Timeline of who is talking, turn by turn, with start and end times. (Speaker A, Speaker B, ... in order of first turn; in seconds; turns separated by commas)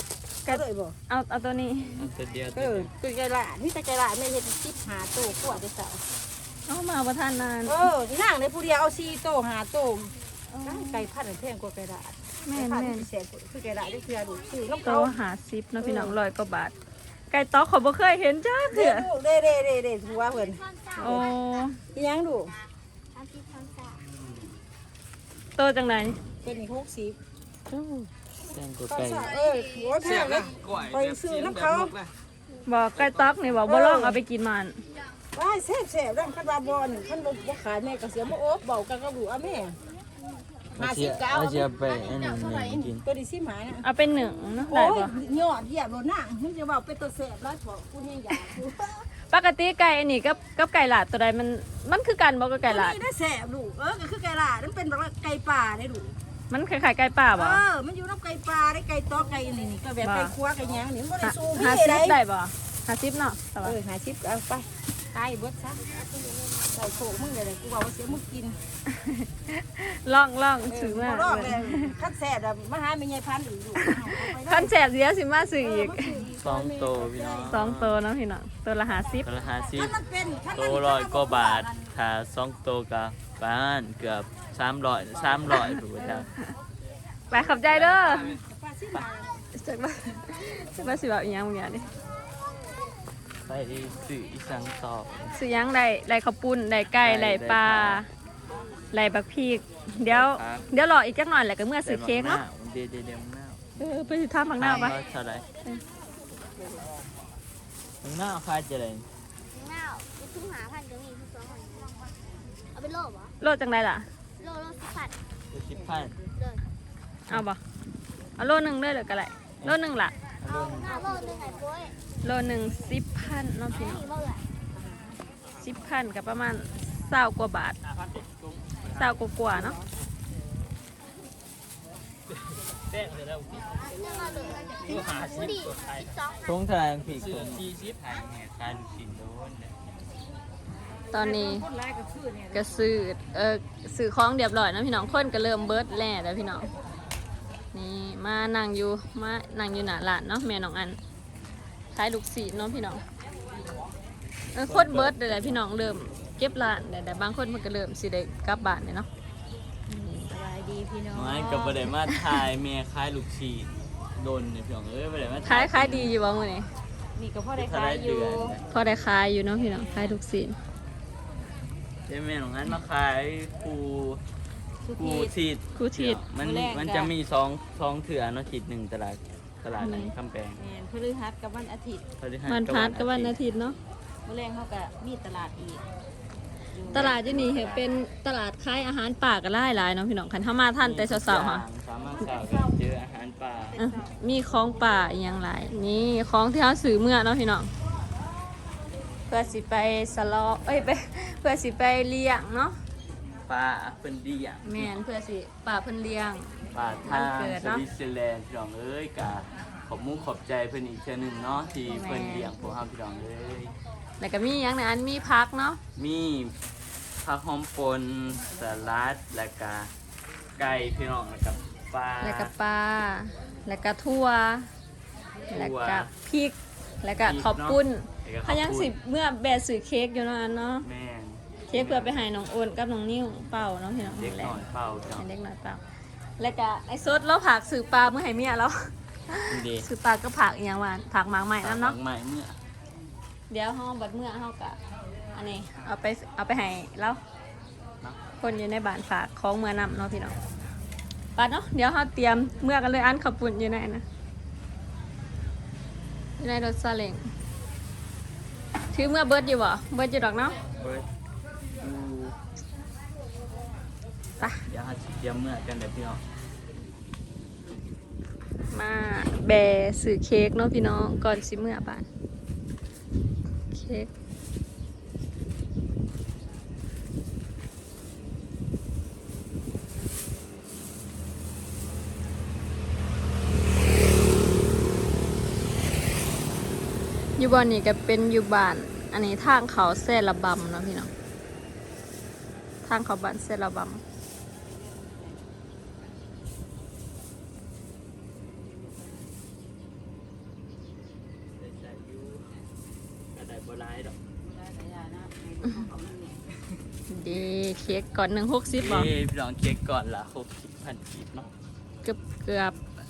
Speaker A: 0.4-2.1, Speaker B: 0.5-0.9, Speaker C: 2.0-2.9, Speaker B: 2.5-6.0, Speaker A: 6.7-7.9, Speaker B: 7.7-10.1, Speaker A: 10.5-11.1, Speaker B: 10.6-15.1, Speaker A: 12.4-13.1, Speaker A: 14.8-16.7, Speaker B: 15.8-16.1, Speaker A: 17.3-19.1, Speaker B: 18.7-21.3, Speaker D: 20.6-21.2, Speaker A: 21.0-21.8, Speaker B: 21.9-22.5, Speaker D: 23.1-24.0, Speaker A: 25.6-26.2, Speaker B: 26.4-27.2, Speaker C: 28.4-29.3, Speaker B: 28.9-32.0, Speaker A: 32.6-34.8, Speaker B: 33.6-34.2, Speaker B: 35.3-39.8, Speaker C: 40.8-43.0, Speaker B: 40.8-41.3, Speaker B: 43.0-43.9, Speaker A: 43.8-45.1, Speaker B: 44.7-49.0, Speaker A: 49.3-53.0, Speaker B: 52.7-56.1, Speaker A: 56.5-57.6, Speaker B: 57.4-62.2, Speaker A: 60.0-60.3, Speaker A: 61.2-63.8, Speaker B: 63.6-65.9, Speaker B: 66.7-68.6, Speaker A: 68.9-71.9, Speaker B: 70.7-74.7, Speaker A: 73.8-76.2, Speaker B: 75.6-77.6, Speaker C: 76.4-78.0, Speaker A: 77.5-79.3, Speaker C: 79.2-80.0, Speaker B: 79.7-81.9, Speaker C: 80.5-86.3, Speaker A: 85.5-86.2, Speaker A: 87.3-88.3, Speaker B: 87.6-89.3, Speaker A: 89.5-91.9, Speaker C: 93.5-95.4, Speaker A: 95.4-98.1, Speaker C: 97.0-98.0, Speaker A: 98.9-102.4, Speaker C: 100.1-100.7, Speaker C: 101.8-103.6, Speaker A: 103.8-105.0, Speaker C: 104.6-105.5, Speaker C: 108.0-109.1, Speaker D: 109.5-112.1, Speaker D: 112.7-113.3, Speaker A: 113.4-114.1, Speaker D: 114.4-115.2, Speaker C: 115.5-116.1, Speaker D: 116.2-116.6, Speaker A: 117.3-117.6, Speaker A: 118.4-120.1, Speaker C: 120.4-121.1, Speaker D: 120.5-122.0, Speaker A: 122.2-124.0, Speaker D: 123.7-124.4, Speaker A: 125.6-127.8, Speaker A: 128.9-129.8, Speaker D: 133.9-136.6, Speaker C: 136.4-139.8, Speaker A: 141.1-141.7, Speaker B: 141.1-142.8, Speaker A: 142.5-146.7, Speaker A: 147.7-151.0, Speaker A: 151.9-153.0, Speaker A: 154.5-159.1, Speaker C: 154.6-155.6, Speaker A: 159.9-160.3, Speaker B: 160.3-161.8, Speaker C: 161.1-166.1, Speaker A: 165.4-166.7, Speaker B: 167.2-168.6, Speaker C: 167.6-168.6, Speaker A: 168.7-170.6, Speaker C: 172.1-174.2, Speaker B: 174.8-175.3, Speaker C: 174.9-180.6, Speaker A: 175.8-176.2, Speaker B: 176.4-177.1, Speaker A: 179.8-180.1, Speaker B: 180.6-182.1, Speaker C: 182.2-183.3, Speaker A: 182.5-183.8, Speaker B: 184.3-185.8, Speaker B: 186.7-187.2, Speaker C: 186.9-187.8, Speaker A: 186.9-191.6, Speaker C: 190.8-193.8, Speaker B: 192.3-192.7, Speaker B: 193.7-194.1, Speaker A: 193.8-197.7, Speaker A: 199.3-202.8, Speaker C: 203.5-204.9, Speaker A: 204.6-206.5, Speaker C: 206.7-213.7, Speaker A: 207.0-207.8, Speaker A: 211.9-212.5, Speaker A: 214.2-215.8, Speaker C: 215.9-216.5, Speaker C: 217.2-219.9, Speaker C: 220.6-222.5, Speaker A: 222.2-224.7, Speaker C: 225.5-226.1, Speaker A: 225.5-230.9, Speaker C: 227.2-228.9, Speaker C: 230.8-232.3, Speaker A: 231.7-234.6, Speaker C: 234.0-235.3, Speaker A: 235.1-235.8, Speaker A: 236.4-242.0, Speaker C: 239.5-239.9, Speaker C: 241.6-242.6, Speaker A: 243.5-244.8, Speaker A: 245.3-247.2, Speaker A: 248.4-250.4, Speaker A: 251.4-254.1, Speaker A: 256.4-257.3, Speaker A: 258.9-260.6, Speaker C: 260.8-261.1, Speaker C: 261.8-262.4, Speaker C: 264.7-266.2, Speaker A: 268.7-272.1, Speaker A: 273.7-274.1, Speaker A: 287.4-291.1, Speaker A: 292.9-294.0, Speaker C: 301.6-302.6, Speaker C: 303.3-304.2, Speaker B: 304.4-306.4, Speaker A: 307.1-309.1, Speaker C: 308.8-311.5, Speaker A: 312.0-312.8